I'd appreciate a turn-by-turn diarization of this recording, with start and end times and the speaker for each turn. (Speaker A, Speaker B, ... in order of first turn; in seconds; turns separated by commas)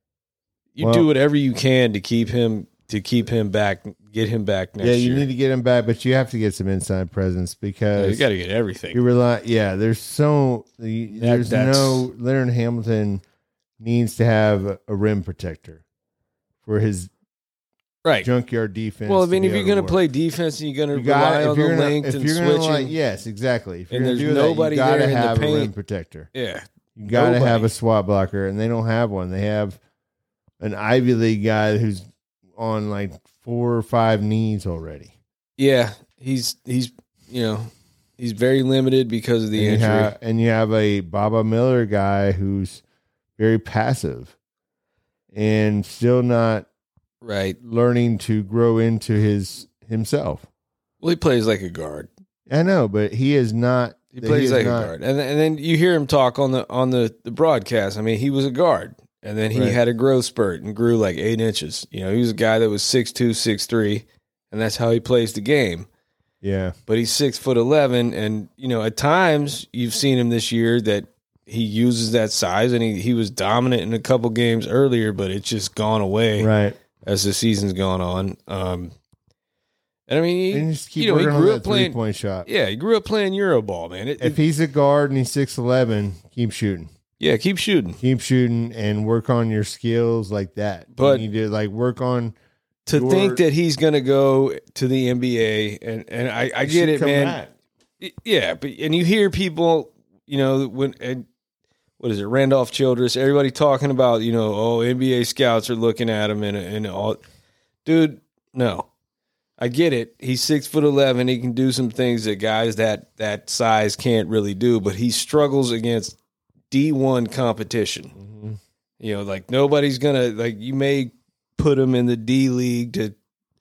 Speaker A: 0.8-5.3, Speaker B: 0.8-1.1, Speaker B: 4.8-8.3, Speaker A: 8.0-9.0, Speaker B: 8.9-13.2, Speaker A: 11.2-12.1, Speaker B: 13.8-15.8, Speaker B: 16.6-17.1, Speaker A: 18.0-18.3, Speaker B: 18.2-20.0, Speaker A: 19.1-22.9, Speaker B: 20.9-26.3, Speaker A: 23.9-25.7, Speaker A: 26.3-27.7, Speaker B: 27.0-29.8, Speaker B: 30.6-32.0, Speaker B: 32.5-35.1, Speaker A: 35.6-40.1, Speaker B: 39.5-42.8, Speaker B: 43.4-44.4, Speaker B: 45.3-46.7, Speaker A: 47.2-47.6, Speaker B: 47.6-50.5, Speaker A: 51.0-52.1, Speaker B: 52.5-54.9, Speaker A: 54.1-65.9, Speaker B: 59.5-59.8, Speaker B: 66.4-66.8, Speaker A: 66.9-76.5, Speaker B: 76.4-76.8, Speaker A: 77.0-78.9, Speaker A: 80.1-84.4, Speaker B: 80.5-82.5, Speaker B: 84.2-86.9, Speaker A: 87.2-88.0, Speaker B: 88.0-92.3, Speaker A: 90.9-91.2, Speaker A: 92.9-97.4, Speaker B: 92.9-93.4, Speaker B: 96.6-97.5, Speaker A: 98.0-101.3, Speaker A: 102.0-107.2, Speaker A: 107.8-108.9, Speaker A: 109.6-116.2, Speaker A: 116.7-118.1, Speaker B: 118.2-118.6, Speaker A: 119.0-123.2